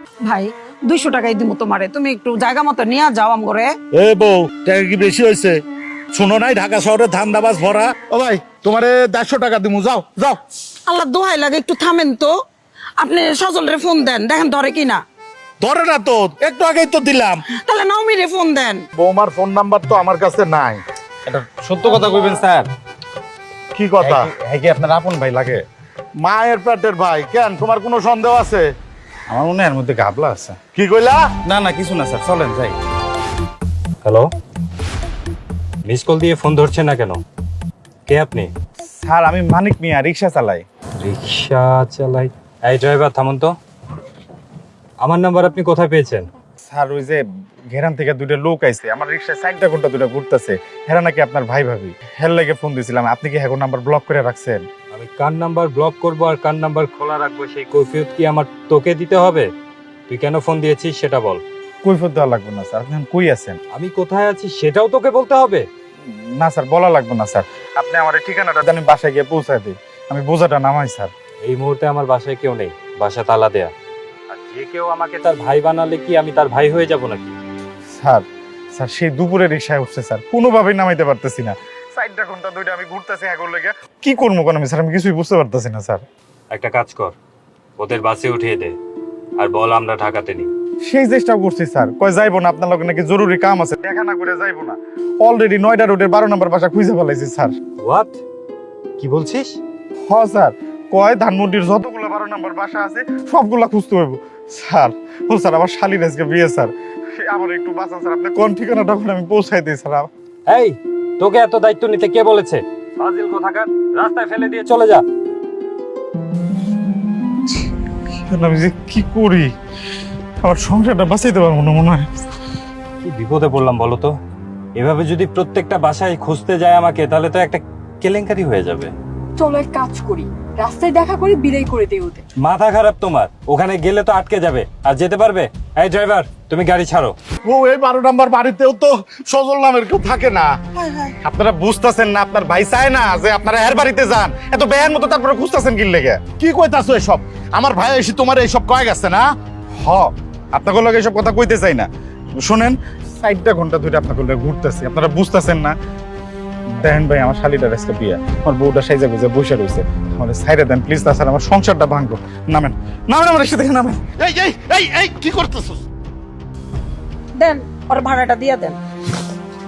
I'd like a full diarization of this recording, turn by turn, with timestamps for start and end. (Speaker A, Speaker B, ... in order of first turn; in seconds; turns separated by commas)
Speaker A: 0.2-3.7, Speaker B: 3.9-5.6, Speaker B: 6.1-10.4, Speaker A: 10.8-12.3, Speaker A: 13.0-15.0, Speaker B: 15.6-17.4, Speaker A: 17.6-18.8, Speaker B: 18.9-20.8, Speaker C: 21.2-22.7, Speaker B: 23.7-24.3, Speaker C: 24.0-25.6, Speaker B: 26.2-28.6, Speaker C: 29.3-30.6, Speaker B: 30.7-31.3, Speaker C: 31.4-32.8, Speaker D: 34.0-34.3, Speaker D: 35.9-37.2, Speaker D: 38.1-38.5, Speaker C: 38.8-40.6, Speaker D: 41.0-43.5, Speaker D: 45.0-46.3, Speaker C: 46.6-54.6, Speaker D: 54.9-59.5, Speaker D: 60.1-61.4, Speaker C: 61.8-63.6, Speaker D: 63.7-65.6, Speaker C: 66.1-71.1, Speaker D: 71.4-73.7, Speaker D: 74.3-77.3, Speaker C: 77.9-86.0, Speaker D: 86.5-87.1, Speaker D: 87.8-88.7, Speaker D: 89.4-90.5, Speaker C: 90.8-97.5, Speaker D: 97.8-98.2, Speaker D: 99.0-99.6, Speaker C: 100.1-110.1, Speaker D: 110.5-115.0, Speaker C: 118.3-119.5, Speaker C: 120.4-122.1, Speaker D: 123.0-124.1, Speaker D: 124.8-128.9, Speaker E: 129.4-132.2, Speaker D: 132.4-137.1, Speaker B: 137.4-140.5, Speaker C: 141.2-146.2, Speaker B: 146.3-149.2, Speaker C: 149.8-155.7, Speaker C: 156.8-164.0, Speaker B: 164.2-165.8, Speaker A: 167.4-168.8